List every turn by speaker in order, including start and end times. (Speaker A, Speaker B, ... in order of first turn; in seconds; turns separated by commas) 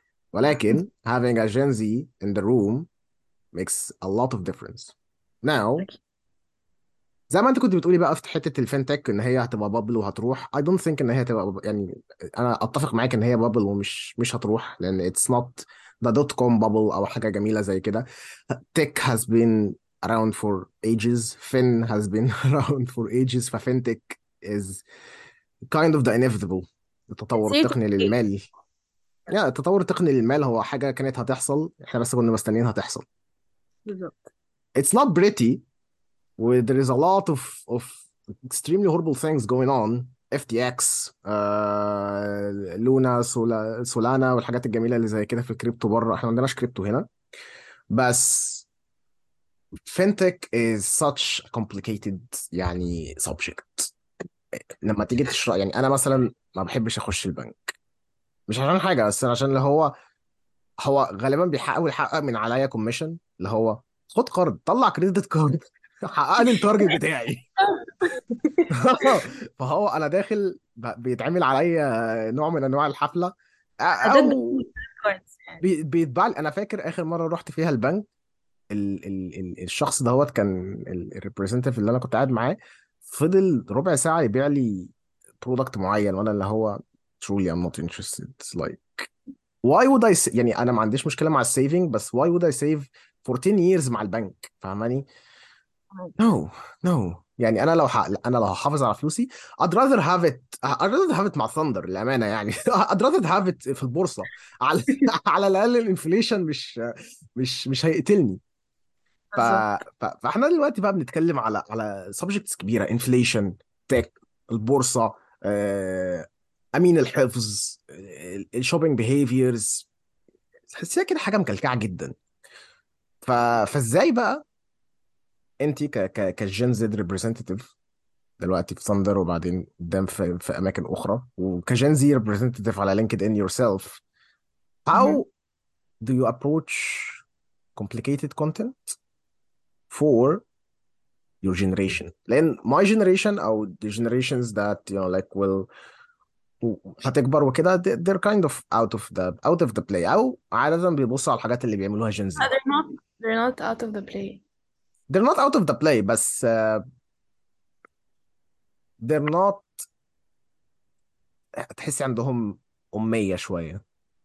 Speaker A: 0.3-2.9, Speaker A: 3.5-5.9, Speaker A: 7.3-24.8, Speaker A: 25.7-28.5, Speaker B: 27.4-28.1, Speaker A: 29.3-33.0, Speaker B: 33.9-34.3, Speaker A: 34.8-35.6, Speaker A: 36.4-47.1, Speaker A: 47.9-48.7, Speaker A: 49.9-53.9, Speaker A: 54.8-57.7, Speaker A: 58.5-59.9, Speaker A: 60.8-67.5, Speaker B: 67.6-69.0, Speaker A: 68.7-74.7, Speaker B: 74.0-75.6, Speaker A: 75.6-78.0, Speaker A: 78.7-89.1, Speaker A: 89.6-95.1, Speaker A: 96.2-108.4, Speaker B: 109.3-109.6, Speaker A: 109.4-119.9, Speaker A: 120.7-122.1, Speaker A: 123.2-124.4, Speaker A: 125.6-127.7, Speaker A: 128.4-134.0, Speaker A: 134.9-135.3, Speaker B: 134.9-135.2, Speaker A: 136.0-137.2, Speaker A: 137.8-139.0, Speaker A: 139.9-140.4, Speaker A: 141.4-145.7, Speaker A: 146.6-152.5, Speaker B: 152.4-154.4, Speaker A: 155.1-156.8, Speaker A: 159.0-159.8, Speaker A: 161.8-163.8